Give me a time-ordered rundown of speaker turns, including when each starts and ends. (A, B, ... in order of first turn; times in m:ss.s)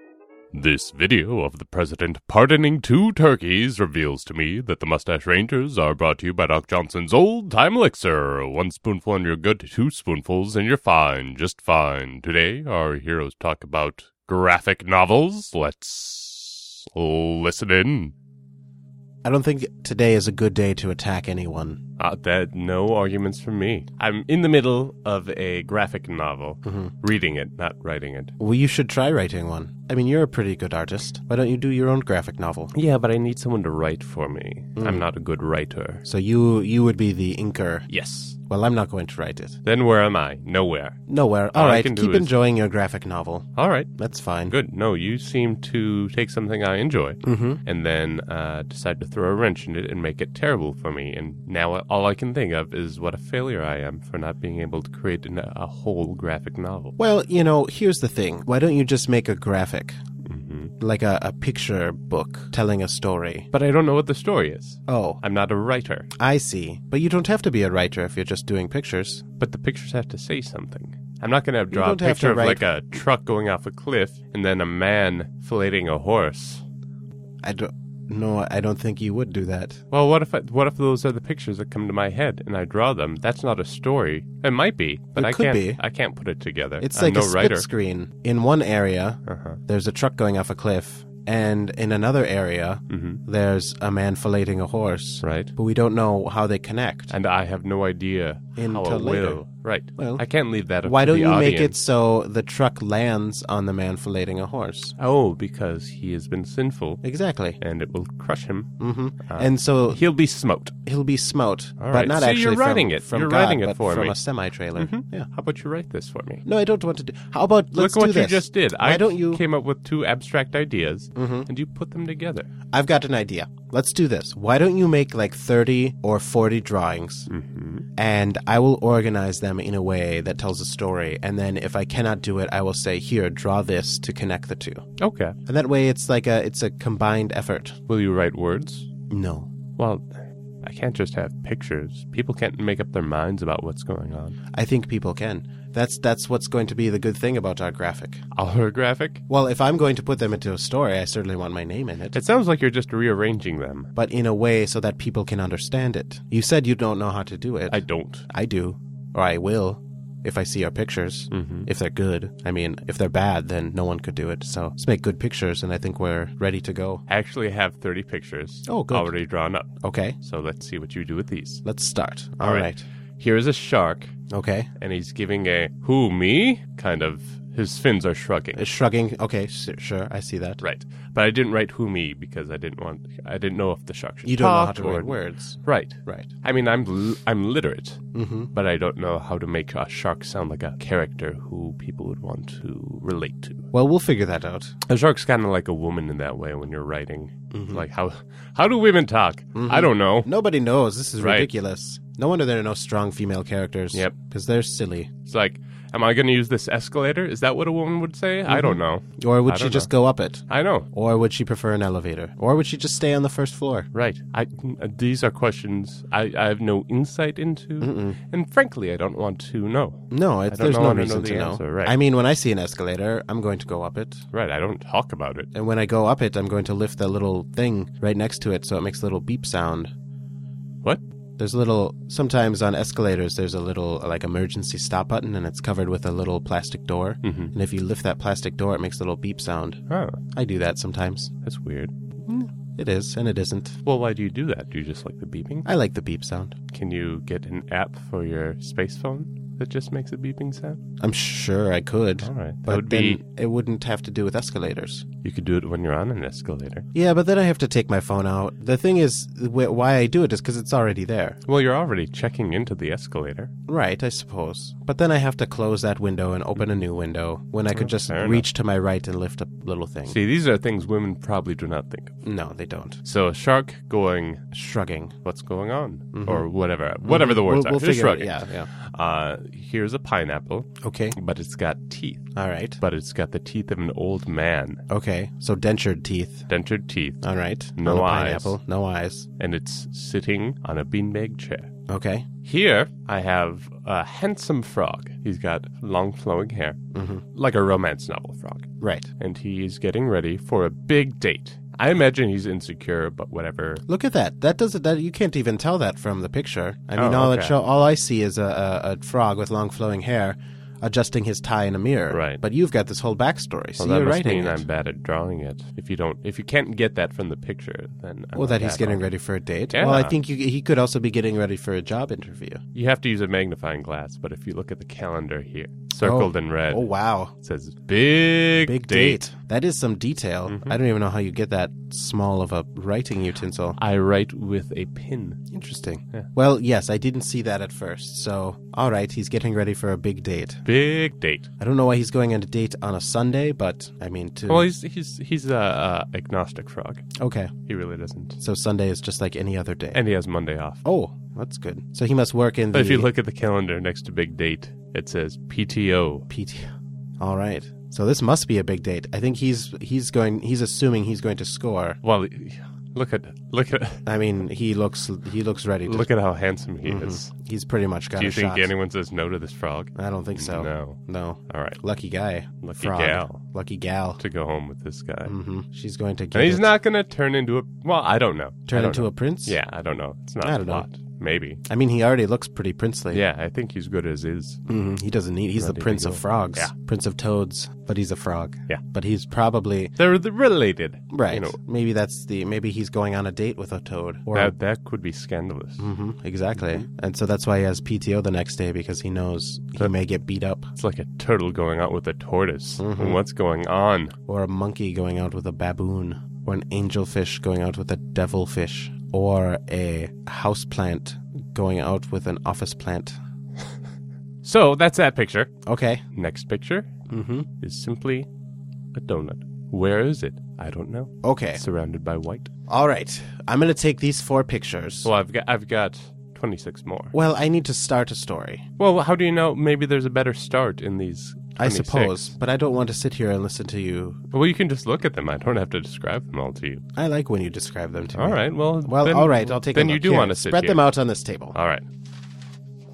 0:00.5-0:18.1 A
0:19.2-0:21.8 B
0:22.0-0:28.4 A
0:26.6-0:26.9 B
0:28.4-0:32.8 B
0:32.7-0:36.0 A
0:34.8-0:35.1 B
0:36.0-0:37.9 B
0:37.9-0:38.4 A
0:38.4-0:39.6 B
0:39.6-0:41.0 A
0:41.1-0:44.6 B
0:41.5-0:42.4 A
0:43.6-0:43.9 A
0:44.5-0:57.0 A
0:47.2-0:47.6 B
0:57.0-1:00.0 B
1:00.2-1:00.7 A
1:00.8-1:03.5 B
1:03.5-1:06.1 A
1:04.9-1:05.2 B
1:06.2-1:09.2 B
1:09.4-1:16.6 A
1:11.7-1:12.7 B
1:17.4-1:19.8 B
1:19.9-1:27.7 A
1:25.2-1:25.8 B
1:26.8-1:37.1 B
1:29.3-1:29.6 A
1:32.9-1:33.2 A
1:35.2-1:35.5 A
1:37.1-1:41.8 A
1:38.6-1:39.4 B
1:40.0-1:40.2 B
1:40.8-1:45.0 B
1:45.0-1:47.0 A
1:47.0-1:47.6 B
1:47.6-1:50.8 A
1:48.8-1:50.0 B
1:50.9-1:55.3 B
1:51.8-1:54.2 A
1:54.8-1:56.4 A
1:56.4-1:59.4 B
1:57.7-2:02.5 A
2:01.2-2:01.5 B
2:02.7-2:07.3 B
2:07.3-2:07.9 A
2:08.0-2:14.8 B
2:15.0-2:15.4 A
2:15.5-2:17.8 B
2:17.9-2:18.9 A
2:19.1-2:19.5 B
2:19.8-2:20.1 A
2:20.6-2:24.4 A
2:24.5-2:28.2 B
2:28.3-2:29.2 A
2:29.3-2:32.2 B
2:32.1-2:33.9 A
2:34.0-2:47.0 B
2:37.7-2:38.3 A
2:41.3-2:41.7 A
2:47.1-2:51.6 A
2:48.7-2:49.1 B
2:49.8-2:50.2 B
2:51.6-2:52.8 B
2:52.4-2:54.1 A
2:54.3-2:54.7 B
2:54.8-2:58.7 A
2:58.6-3:00.6 B
3:00.6-3:08.0 A
3:04.2-3:06.3 B
3:08.1-3:08.5 B
3:08.5-3:13.7 A
3:13.7-3:14.8 B
3:14.9-3:20.3 A
3:17.5-3:17.9 B
3:19.6-3:25.1 B
3:21.2-3:21.5 A
3:25.3-3:29.9 A
3:28.5-3:33.9 B
3:30.5-3:30.9 A
3:33.9-3:42.0 A
3:37.8-3:38.2 B
3:40.1-3:44.2 B
3:44.3-3:45.5 A
3:45.5-3:49.9 B
3:51.4-3:59.8 B
3:57.2-3:57.5 A
3:59.9-4:00.2 A
4:00.3-4:01.3 B
4:01.4-4:01.9 A
4:02.2-4:03.8 B
4:03.8-4:05.7 A
4:05.6-4:06.6 B
4:06.7-4:10.8 A
4:11.0-4:15.0 B
4:12.2-4:13.2 A
4:15.2-4:16.9 A
4:16.9-4:21.4 B
4:21.4-4:23.5 A
4:23.7-4:30.2 B
4:27.7-4:28.5 A
4:30.1-4:32.2 A
4:32.2-4:33.0 B
4:33.0-4:34.4 A
4:34.5-4:35.1 B
4:35.2-4:42.3 A
4:36.1-4:36.5 B
4:37.0-4:38.7 B
4:40.8-4:41.2 B
4:42.4-4:42.8 B
4:42.8-4:44.8 A
4:44.9-4:46.5 B
4:46.5-4:48.6 A
4:47.2-4:49.3 B
4:49.4-4:51.7 A
4:51.9-4:52.3 B
4:52.4-4:56.8 A
4:56.9-4:57.2 B
4:57.3-5:03.8 A
4:58.8-4:59.1 B
5:03.9-5:14.6 B
5:07.0-5:07.6 A
5:12.1-5:12.4 A
5:13.8-5:19.1 A
5:18.4-5:22.6 B
5:19.7-5:20.2 A
5:22.7-5:29.2 A
5:26.0-5:27.3 B
5:28.6-5:33.8 B
5:30.5-5:30.8 A
5:33.8-5:35.4 A
5:35.5-5:40.6 B
5:40.6-5:41.5 A
5:41.6-5:44.7 B
5:44.5-5:47.1 A
5:47.2-5:47.5 B
5:47.7-5:48.4 A
5:48.4-5:50.0 B
5:49.9-5:50.8 A
5:50.8-5:53.1 B
5:52.7-5:56.3 A
5:56.3-6:02.0 B
6:02.0-6:04.1 A
6:04.1-6:06.1 B
6:05.8-6:07.3 A
6:06.8-6:08.7 B
6:08.2-6:11.8 A
6:10.0-6:14.2 B
6:12.6-6:13.4 A
6:14.2-6:15.3 A
6:15.2-6:16.7 B
6:16.3-6:21.6 A
6:18.7-6:19.6 B
6:20.4-6:20.9 B
6:21.7-6:23.2 B
6:23.1-6:24.6 A
6:24.7-6:29.9 B
6:25.6-6:26.7 A
6:30.0-6:31.6 A
6:31.1-6:34.6 B
6:34.3-6:35.9 A
6:35.8-6:40.7 B
6:36.6-6:36.8 A
6:40.8-6:44.2 A
6:42.8-6:43.2 B
6:44.3-6:53.2 B
6:54.4-6:55.5 A
6:55.7-6:56.0 B
6:56.1-6:56.9 A
6:57.1-6:57.5 B
6:57.6-6:58.3 A
6:58.9-7:02.5 A
7:01.2-7:01.6 B
7:02.7-7:05.1 B
7:05.0-7:07.2 A
7:07.1-7:08.6 B
7:08.8-7:12.3 A
7:11.6-7:14.2 B
7:14.3-7:16.8 A
7:17.0-7:21.6 B
7:18.1-7:20.9 A
7:21.5-7:21.8 A